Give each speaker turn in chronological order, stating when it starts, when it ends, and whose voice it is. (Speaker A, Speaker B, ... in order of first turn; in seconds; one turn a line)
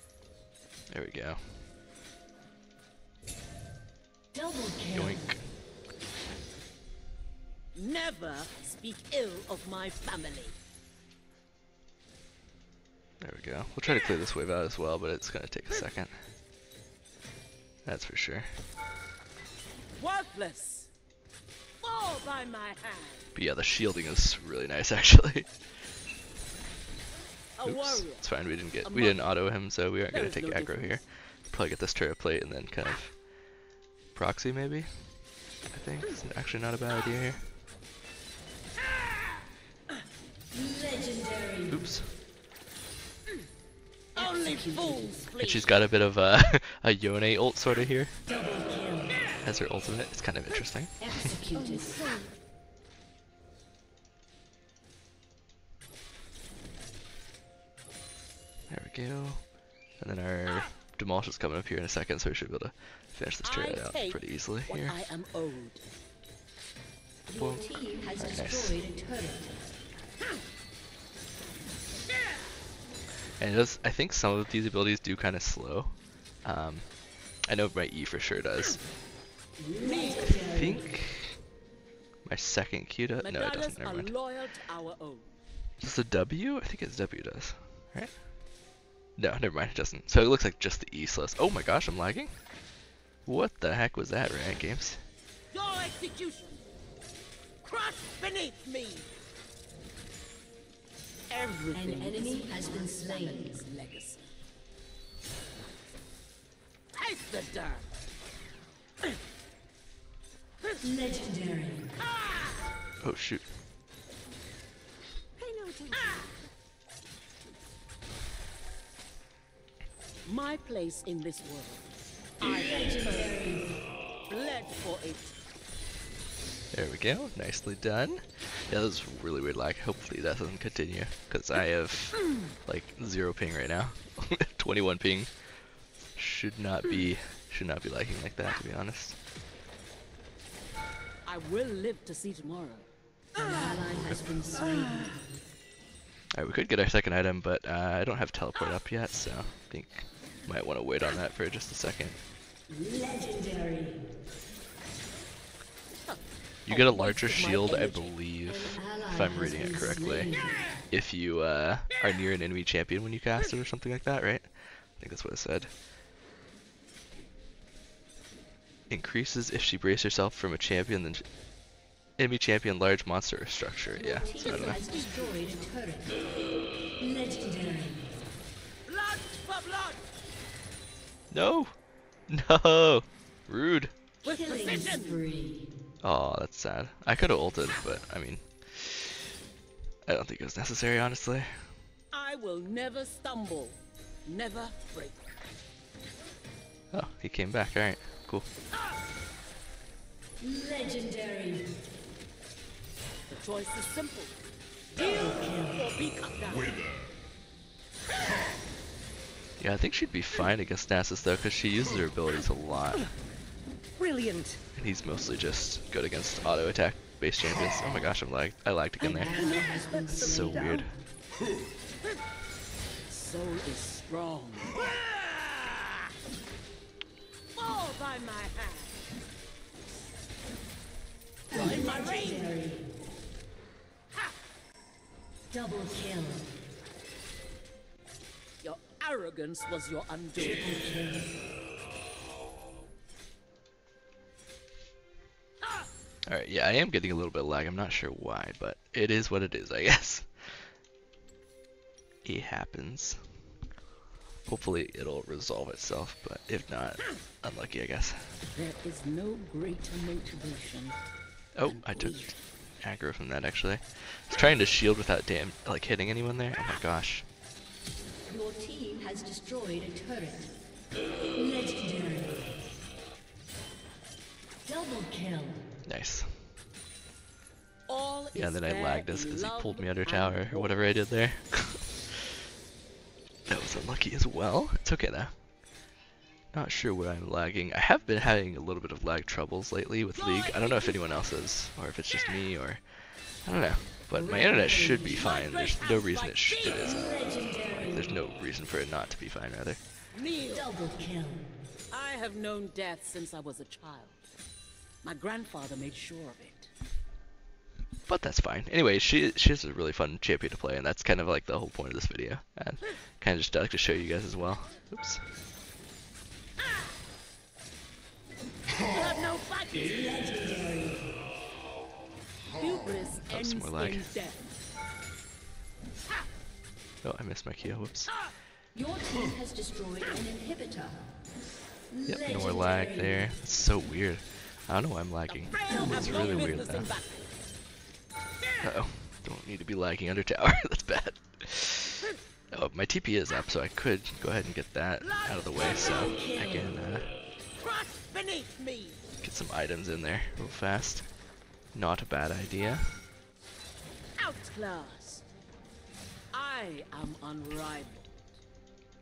Speaker A: 0.9-1.6
Speaker B: 4.3-5.2
Speaker A: 4.9-5.5
Speaker C: 7.7-10.6
Speaker A: 13.2-16.2
Speaker A: 17.8-18.5
Speaker C: 20.0-20.9
Speaker C: 21.8-23.3
Speaker A: 23.3-25.5
Speaker C: 27.6-29.3
Speaker A: 27.6-33.2
Speaker C: 30.1-31.0
Speaker A: 34.1-35.1
Speaker A: 35.7-37.5
Speaker B: 40.5-41.8
Speaker A: 41.7-42.1
Speaker B: 44.1-45.2
Speaker C: 44.1-45.9
Speaker A: 45.4-48.2
Speaker B: 48.2-49.2
Speaker A: 49.4-51.3
Speaker B: 51.0-52.0
Speaker C: 51.5-52.3
Speaker A: 58.7-65.0
Speaker C: 63.4-65.8
Speaker B: 67.3-69.5
Speaker A: 67.3-68.8
Speaker A: 73.4-78.8
Speaker B: 79.6-80.9
Speaker C: 79.8-80.4
Speaker A: 80.5-81.4
Speaker A: 82.2-84.1
Speaker C: 83.2-85.4
Speaker A: 85.8-88.2
Speaker A: 89.2-92.4
Speaker A: 93.2-95.0
Speaker C: 95.5-96.7
Speaker C: 97.6-99.1
Speaker C: 101.3-104.3
Speaker B: 101.7-103.6
Speaker C: 106.9-107.9
Speaker B: 110.8-112.0
Speaker C: 112.0-112.5
Speaker A: 113.0-113.5
Speaker C: 115.4-116.2
Speaker B: 115.6-116.0
Speaker C: 120.2-121.9
Speaker C: 122.4-123.6
Speaker B: 122.4-123.7
Speaker C: 124.3-125.3
Speaker A: 126.7-135.3
Speaker A: 136.1-139.2
Speaker C: 141.2-143.9
Speaker B: 143.4-145.1
Speaker A: 143.9-144.3
Speaker C: 144.6-145.1
Speaker A: 146.3-152.2
Speaker B: 152.7-154.0
Speaker C: 156.1-158.1
Speaker A: 156.7-160.3
Speaker B: 158.5-160.6
Speaker A: 160.9-165.7
Speaker A: 168.9-171.2
Speaker A: 172.2-174.8
Speaker B: 174.0-176.1
Speaker C: 174.2-175.7
Speaker B: 177.0-178.1
Speaker C: 178.9-180.0
Speaker A: 181.3-181.7
Speaker A: 182.3-183.9
Speaker C: 184.2-185.2
Speaker B: 184.2-185.7
Speaker A: 186.0-189.2
Speaker A: 190.1-191.5
Speaker C: 192.1-195.3
Speaker A: 196.9-198.5
Speaker B: 200.4-201.7
Speaker C: 203.3-204.4
Speaker C: 204.9-206.8
Speaker B: 204.9-205.9
Speaker A: 209.6-213.0
Speaker C: 214.0-214.6
Speaker A: 214.7-221.0
Speaker B: 219.0-220.8
Speaker C: 219.2-220.8
Speaker C: 223.1-225.9
Speaker C: 227.5-229.0
Speaker C: 231.5-232.5
Speaker B: 231.5-232.9
Speaker B: 235.5-236.5
Speaker C: 238.6-240.9
Speaker B: 240.5-241.2
Speaker A: 246.3-250.3
Speaker A: 252.2-253.2
Speaker A: 254.4-258.2
Speaker C: 258.5-261.0
Speaker A: 261.5-262.3
Speaker C: 261.6-262.4
Speaker A: 262.8-267.2
Speaker B: 268.3-270.5
Speaker B: 271.3-272.5
Speaker B: 274.6-275.6
Speaker A: 275.9-276.5
Speaker C: 277.9-280.8
Speaker A: 278.3-282.2
Speaker A: 283.5-285.3
Speaker A: 286.5-292.8
Speaker C: 290.1-291.2
Speaker A: 293.4-299.8
Speaker B: 294.1-295.2
Speaker C: 295.0-297.0
Speaker B: 296.8-298.1
Speaker C: 300.1-300.8
Speaker B: 300.5-301.5
Speaker C: 301.9-304.2
Speaker C: 305.0-306.7
Speaker A: 308.1-315.2
Speaker C: 318.9-320.2
Speaker B: 320.0-321.0
Speaker C: 322.5-324.5
Speaker A: 323.3-324.1
Speaker A: 327.0-328.1
Speaker B: 328.7-331.0
Speaker B: 331.9-333.4
Speaker A: 332.1-336.9
Speaker C: 335.3-337.2
Speaker B: 335.7-336.1
Speaker A: 338.6-347.1
Speaker C: 345.0-346.1
Speaker B: 345.6-346.8
Speaker C: 347.6-349.0
Speaker A: 349.2-351.1
Speaker A: 351.7-353.0
Speaker C: 354.1-355.3
Speaker C: 356.3-358.2